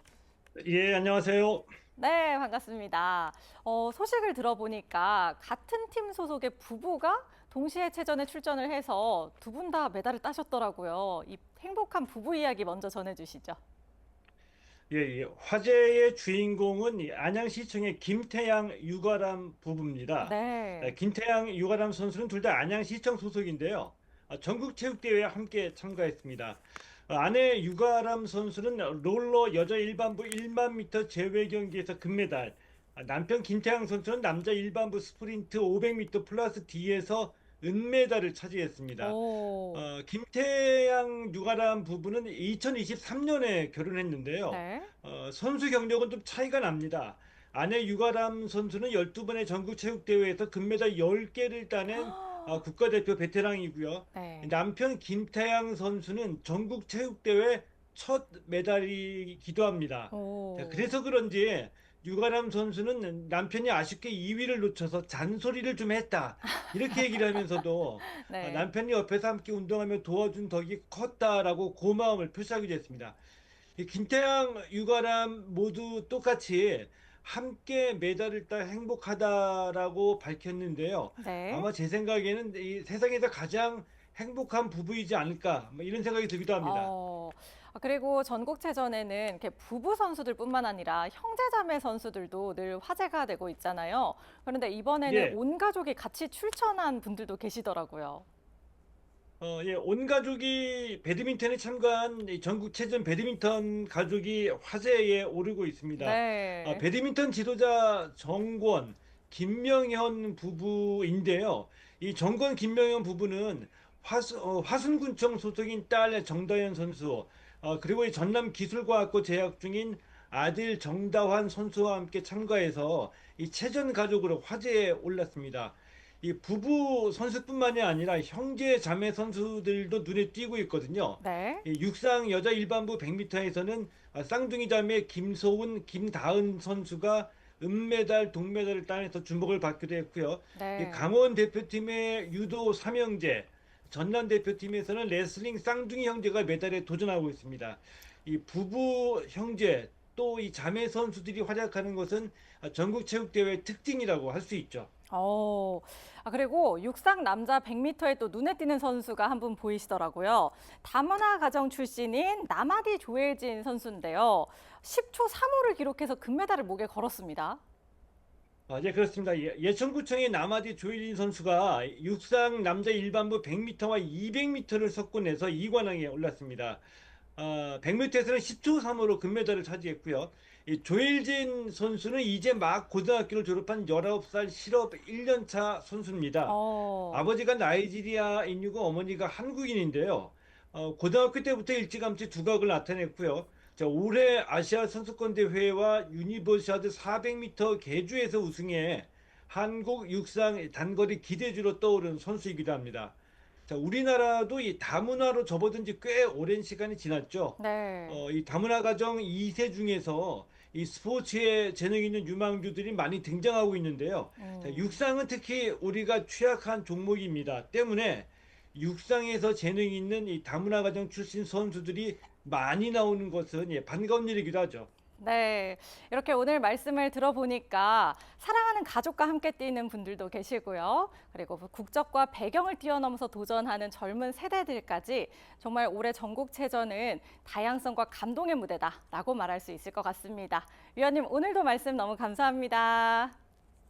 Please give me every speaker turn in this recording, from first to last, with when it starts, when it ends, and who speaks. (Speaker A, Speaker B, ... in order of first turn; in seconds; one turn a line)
Speaker A: 0.6-1.7
Speaker B: 2.0-13.6
Speaker A: 14.9-39.2
Speaker B: 20.2-21.0
Speaker B: 39.0-39.9
Speaker A: 39.7-73.2
Speaker B: 44.5-44.9
Speaker B: 51.9-52.6
Speaker B: 54.1-54.5
Speaker B: 60.1-61.0
Speaker B: 67.0-67.4
Speaker B: 68.1-68.7
Speaker A: 73.8-86.9
Speaker B: 81.2-81.7
Speaker B: 86.6-98.2
Speaker A: 95.1-95.4
Speaker A: 99.4-154.9
Speaker B: 106.0-106.9
Speaker B: 131.2-131.7
Speaker B: 140.6-141.1
Speaker B: 155.1-167.6
Speaker A: 168.7-176.8
Speaker A: 177.4-186.6
Speaker B: 186.5-187.3
Speaker A: 187.1-203.2
Speaker A: 203.7-224.9
Speaker B: 207.6-208.2
Speaker B: 214.4-215.0
Speaker B: 225.2-243.4